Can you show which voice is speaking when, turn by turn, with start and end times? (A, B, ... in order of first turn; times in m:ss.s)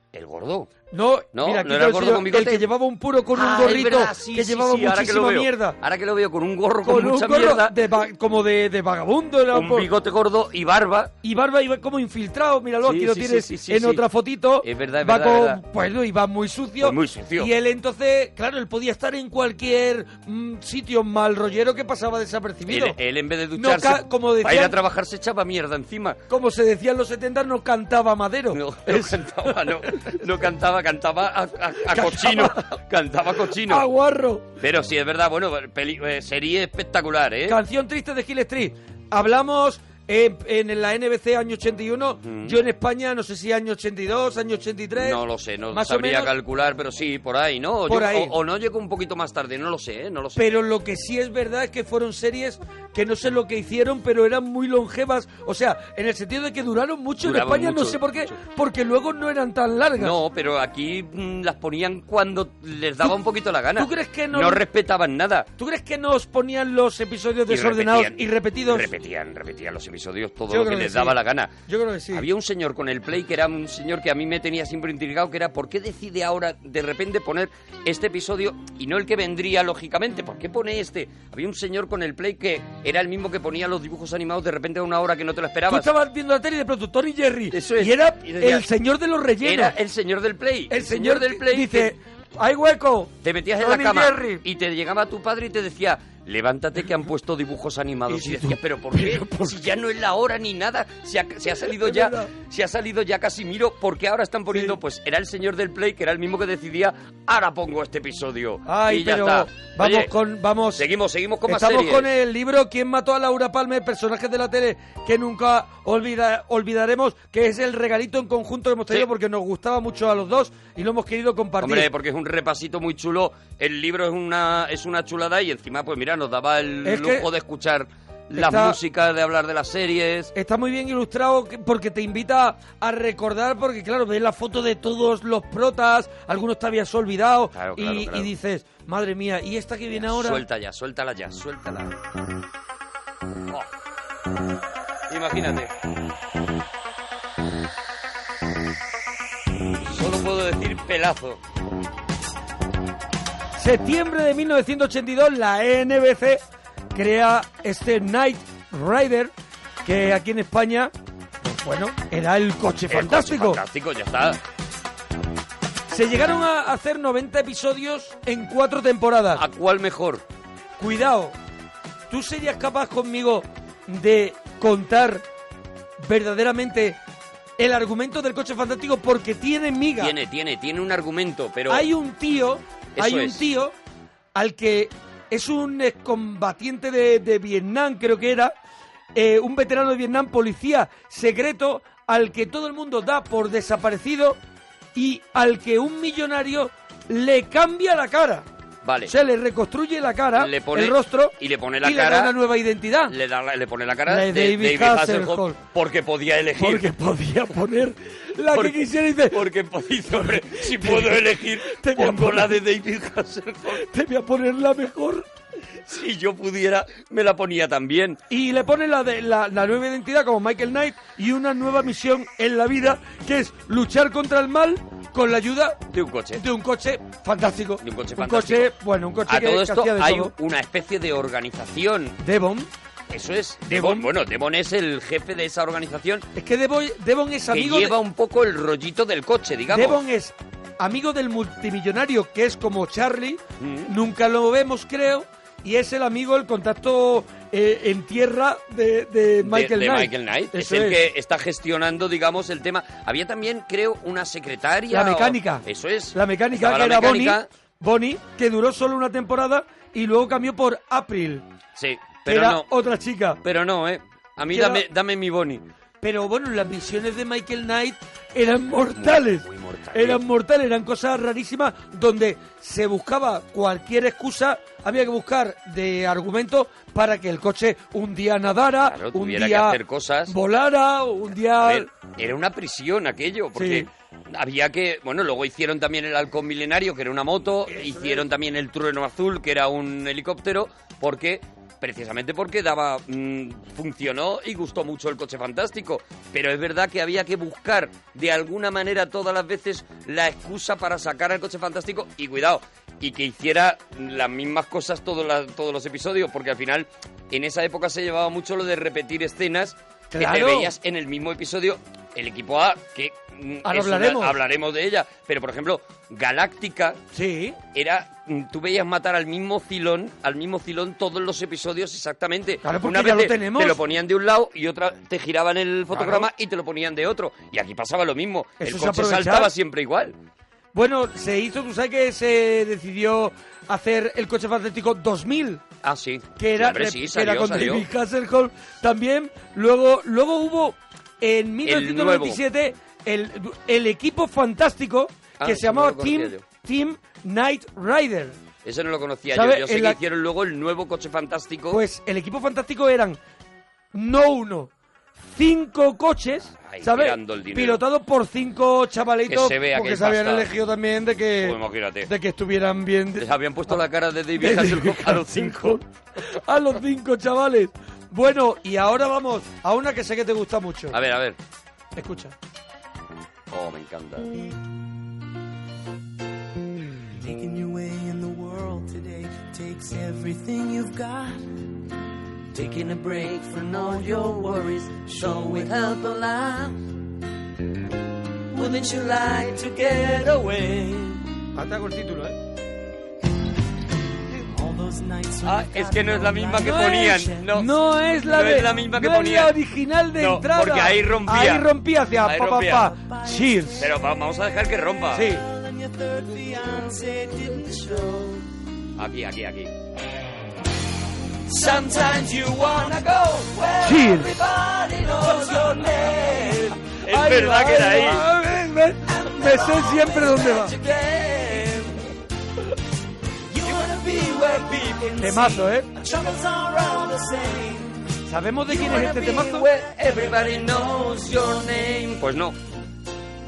0:00.1-0:00.7 A
0:00.9-0:05.8 B
0:01.3-0:02.7 A
0:03.3-0:07.8 A
0:06.8-0:09.9 B
0:09.5-0:11.1 A
0:11.2-0:23.0 B
0:12.8-0:14.1 A
0:14.6-0:15.6 A
0:16.8-0:17.5 A
0:22.7-0:26.2 A
0:23.5-0:24.8 B
0:26.3-0:30.2 B
0:28.5-0:33.9 A
0:31.9-0:32.8 B
0:33.5-0:34.5 B
0:34.6-0:37.6 A
0:37.5-0:46.3 B
0:42.2-0:42.6 A
0:45.0-0:50.4 A
0:47.9-0:48.4 B
0:50.4-1:00.2 B
0:57.2-0:58.3 A
1:00.0-1:05.5 A
1:03.8-1:04.6 B
1:05.6-1:08.9 B
1:07.5-1:11.6 A
1:10.5-1:12.3 B
1:12.1-1:25.9 A
1:25.7-1:29.7 B
1:27.5-1:28.6 A
1:29.4-1:31.9 A
1:30.7-1:34.4 B
1:33.2-1:50.1 A
1:38.1-1:39.6 B
1:41.7-1:42.3 B
1:48.6-1:50.8 B
1:50.8-1:52.1 A
1:51.5-2:01.9 B
2:01.6-2:10.3 A
2:06.8-2:07.3 B
2:08.3-2:08.8 B
2:10.3-2:20.4 B
2:17.5-2:18.3 A
2:19.9-2:22.0 A
2:25.1-2:25.7 A
2:29.9-2:31.4 A
2:33.6-2:36.4 B
2:36.9-2:39.3 B
2:39.8-2:43.6 B
2:42.9-2:44.4 A
2:45.9-2:49.4 B
2:49.3-2:50.2 A
2:50.8-2:51.4 B
2:52.1-2:55.2 B
2:56.0-2:57.0 B
2:57.6-3:00.2 B
3:00.0-3:01.9 A
3:01.7-3:03.7 B
3:03.0-3:03.5 A
3:04.4-3:08.5 B
3:09.2-3:14.4 B
3:15.0-3:18.5 B
3:18.8-3:19.1 A
3:19.1-3:23.2 B
3:20.4-3:22.4 A
3:23.1-3:26.9 A
3:24.1-3:25.6 B
3:26.6-3:29.4 B
3:28.5-3:33.8 A
3:30.1-3:32.6 B
3:33.7-3:35.3 B
3:35.9-3:38.2 A
3:38.3-3:50.3 B
3:45.9-3:46.4 A
3:47.8-3:48.7 A
3:49.3-3:52.2 A
3:52.2-3:52.7 B
3:53.1-3:56.3 A
3:53.7-3:54.1 B
3:56.4-3:58.0 B
3:57.5-4:00.0 A
3:59.7-4:11.0 B
4:03.6-4:03.9 A
4:09.4-4:17.5 A
4:14.9-4:21.4 B
4:21.8-4:22.7 A
4:22.3-4:23.4 B
4:23.4-4:25.7 A
4:24.5-4:24.8 B
4:26.0-4:41.9 B
4:29.0-4:30.2 A
4:38.8-4:40.4 A
4:41.5-5:17.0 A
4:43.6-4:43.9 B
4:47.7-4:48.2 B
5:10.1-5:10.7 B
5:13.6-5:14.4 B
5:17.1-5:17.6 B
5:17.7-5:30.2 A
5:22.6-5:23.8 B
5:25.9-5:26.3 B
5:28.6-5:29.5 B
5:30.7-5:35.6 B
5:35.8-5:37.9 A
5:36.4-5:48.4 B
5:41.6-5:42.4 A
5:45.4-5:46.4 A
5:48.6-5:51.8 A
5:49.3-5:50.0 B
5:51.7-5:53.2 B
5:53.9-5:54.7 B
5:55.3-6:03.3 B
5:56.6-5:57.8 A
5:59.3-6:00.5 A
6:01.4-6:02.1 A
6:03.2-6:05.8 A
6:04.4-6:11.0 B
6:10.9-6:11.4 A
6:12.0-6:12.3 B
6:13.5-6:14.3 A
6:17.2-6:21.4 C
6:22.5-6:26.8 A
6:28.5-6:31.2 A
6:31.6-6:32.4 B
6:34.5-6:37.2 C
6:35.4-6:39.6 A
6:36.6-6:43.9 B
6:40.2-6:41.7 A
6:42.2-6:43.0 A
6:43.7-6:45.4 A
6:45.1-6:45.4 B
6:45.6-6:48.3 C
6:49.0-6:49.7 A
6:51.5-6:58.3 A
6:53.8-6:54.4 B
6:55.5-6:56.6 C
6:57.0-7:00.8 B
6:59.4-7:02.0 A
7:03.5-7:05.7 A
7:03.9-7:04.5 C
7:05.2-7:05.9 B
7:06.0-7:07.8 C
7:06.6-7:07.3 A
7:08.3-7:09.7 B
7:08.7-7:12.6 A